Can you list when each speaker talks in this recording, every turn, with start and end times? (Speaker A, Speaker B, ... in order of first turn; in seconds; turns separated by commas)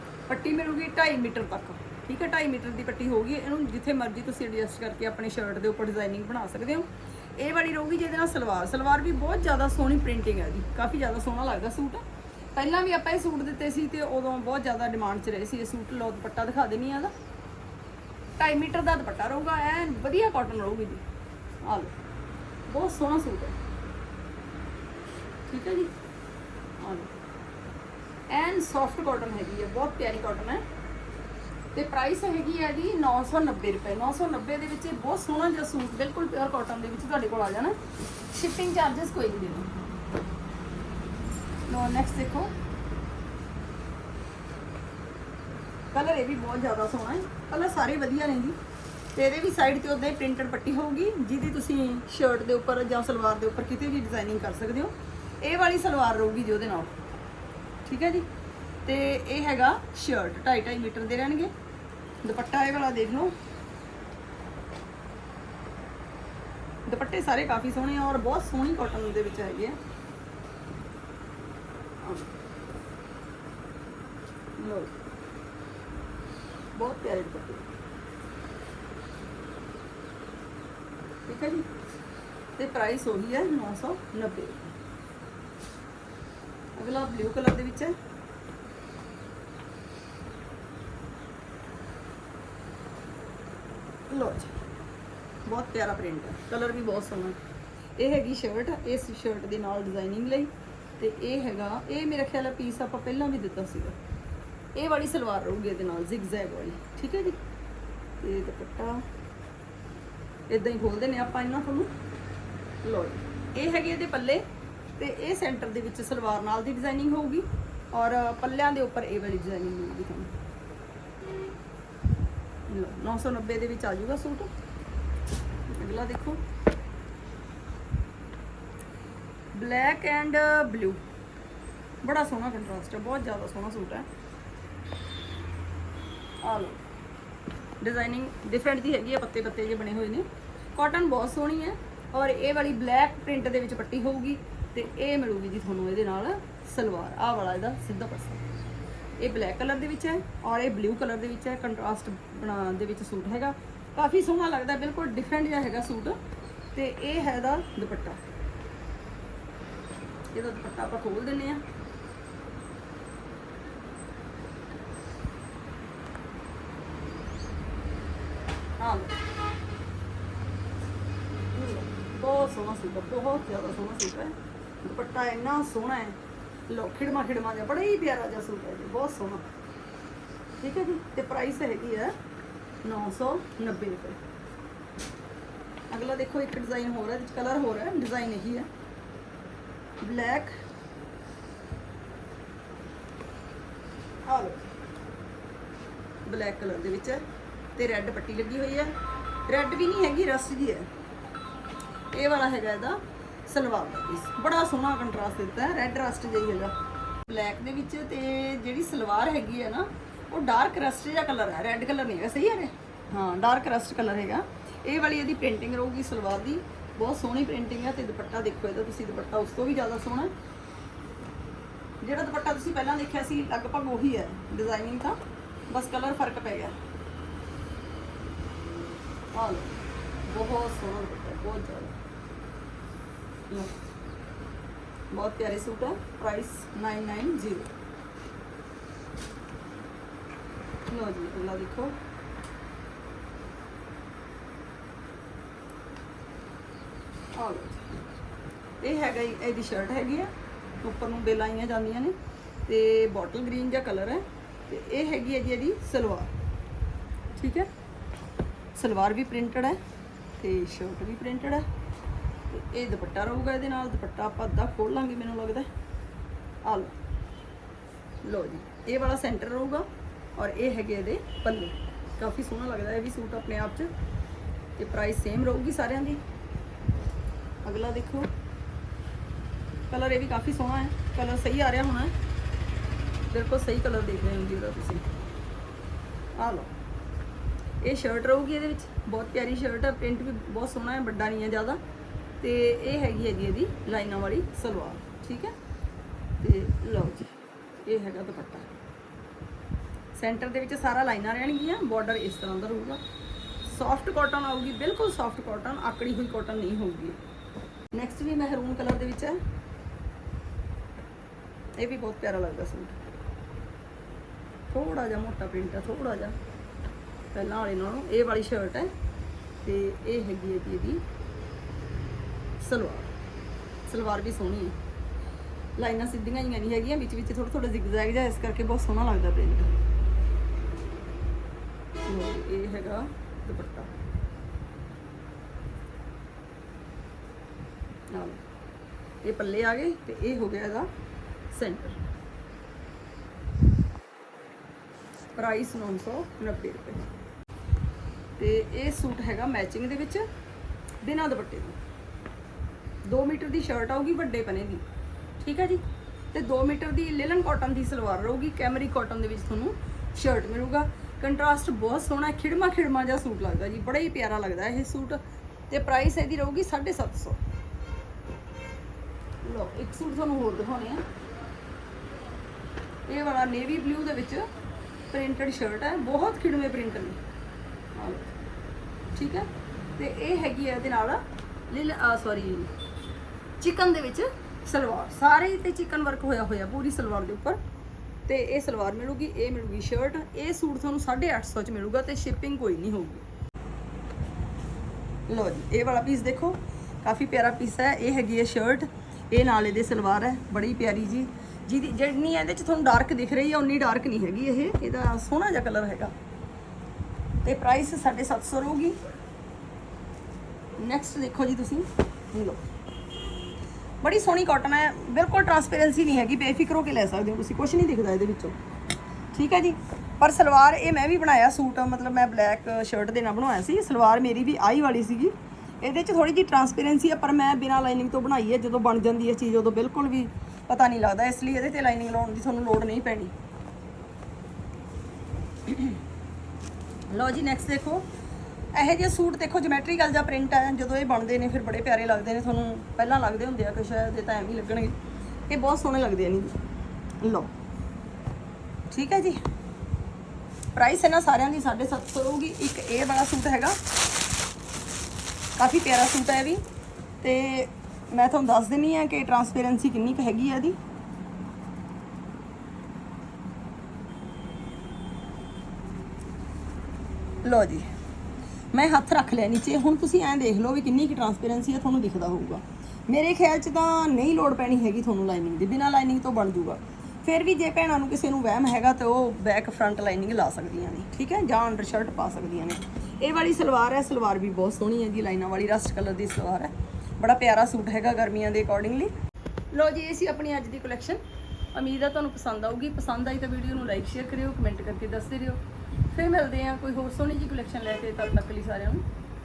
Speaker A: 0.3-12.0, Speaker A: 12.5-17.1, Speaker A: 18.4-21.0, Speaker A: 21.6-21.9, Speaker A: 22.7-23.6, Speaker A: 25.5-25.9, Speaker A: 26.8-27.1, Speaker A: 28.3-30.6, Speaker A: 31.7-37.8, Speaker A: 38.3-39.7, Speaker A: 41.7-42.5, Speaker A: 45.9-48.6, Speaker A: 49.1-56.9, Speaker A: 57.8-58.3, Speaker A: 58.8-61.5, Speaker A: 62.2-63.3, Speaker A: 66.8-69.8, Speaker A: 72.0-72.3, Speaker A: 74.6-75.0, Speaker A: 76.7-77.7, Speaker A: 81.3-81.7, Speaker A: 82.6-84.7, Speaker A: 86.8-88.0, Speaker A: 94.1-94.5, Speaker A: 95.5-97.4, Speaker A: 98.0-104.0, Speaker A: 104.7-107.4, Speaker A: 108.2-109.0, Speaker A: 110.5-111.9, Speaker A: 112.8-114.4, Speaker A: 115.0-120.3, Speaker A: 122.7-124.5, Speaker A: 125.7-126.4, Speaker A: 129.5-131.0, Speaker A: 132.0-134.1, Speaker A: 136.4-136.8, Speaker A: 137.8-148.4, Speaker A: 149.2-156.2, Speaker A: 156.7-158.2, Speaker A: 160.3-161.6, Speaker A: 168.8-169.2, Speaker A: 171.5-176.2, Speaker A: 176.7-179.5, Speaker A: 180.6-182.1, Speaker A: 182.8-184.2, Speaker A: 185.9-188.7, Speaker A: 190.0-190.5, Speaker A: 194.2-194.7, Speaker A: 196.2-197.2, Speaker A: 197.8-198.9, Speaker A: 199.5-200.9, Speaker A: 202.1-220.3, Speaker A: 222.0-225.2, Speaker A: 225.7-226.8, Speaker A: 229.3-231.9, Speaker A: 235.1-237.7, Speaker A: 240.9-241.9, Speaker A: 247.3-247.9, Speaker A: 248.8-252.1, Speaker A: 252.7-256.3, Speaker A: 257.4-257.7, Speaker A: 258.7-259.8, Speaker A: 260.4-261.6, Speaker A: 262.5-265.7, Speaker A: 266.6-266.9, Speaker A: 268.2-273.9, Speaker A: 274.8-276.2, Speaker A: 277.6-278.3, Speaker A: 279.9-282.1, Speaker A: 283.3-285.0, Speaker A: 286.4-286.7, Speaker A: 287.8-291.8, Speaker A: 292.4-295.5, Speaker A: 296.4-298.7, Speaker A: 300.1-303.0, Speaker A: 303.6-307.2, Speaker A: 307.9-309.4, Speaker A: 311.8-313.0, Speaker A: 314.7-316.4, Speaker A: 317.3-318.9, Speaker A: 319.6-321.0, Speaker A: 322.6-323.1, Speaker A: 323.9-324.8, Speaker A: 325.8-329.7, Speaker A: 332.1-333.9, Speaker A: 338.1-338.4, Speaker A: 339.2-340.9, Speaker A: 341.5-342.0, Speaker A: 345.3-347.1, Speaker A: 348.4-350.2, Speaker A: 351.0-351.8, Speaker A: 353.0-354.8, Speaker A: 355.4-355.8, Speaker A: 356.3-367.4, Speaker A: 369.4-371.0, Speaker A: 373.1-374.5, Speaker A: 375.1-377.2, Speaker A: 377.9-378.3, Speaker A: 379.1-382.7, Speaker A: 383.6-387.6, Speaker A: 388.3-393.2, Speaker A: 395.3-406.1, Speaker A: 407.4-408.9, Speaker A: 410.8-412.6, Speaker A: 414.0-418.6, Speaker A: 419.3-433.3, Speaker A: 435.6-436.0, Speaker A: 437.1-438.1, Speaker A: 438.7-444.9, Speaker A: 445.5-446.6, Speaker A: 447.2-447.5, Speaker A: 448.9-449.4, Speaker A: 450.7-453.8, Speaker A: 455.6-456.6, Speaker A: 457.2-460.8, Speaker A: 467.4-467.9, Speaker A: 468.7-489.1, Speaker A: 489.7-491.2, Speaker A: 491.7-499.0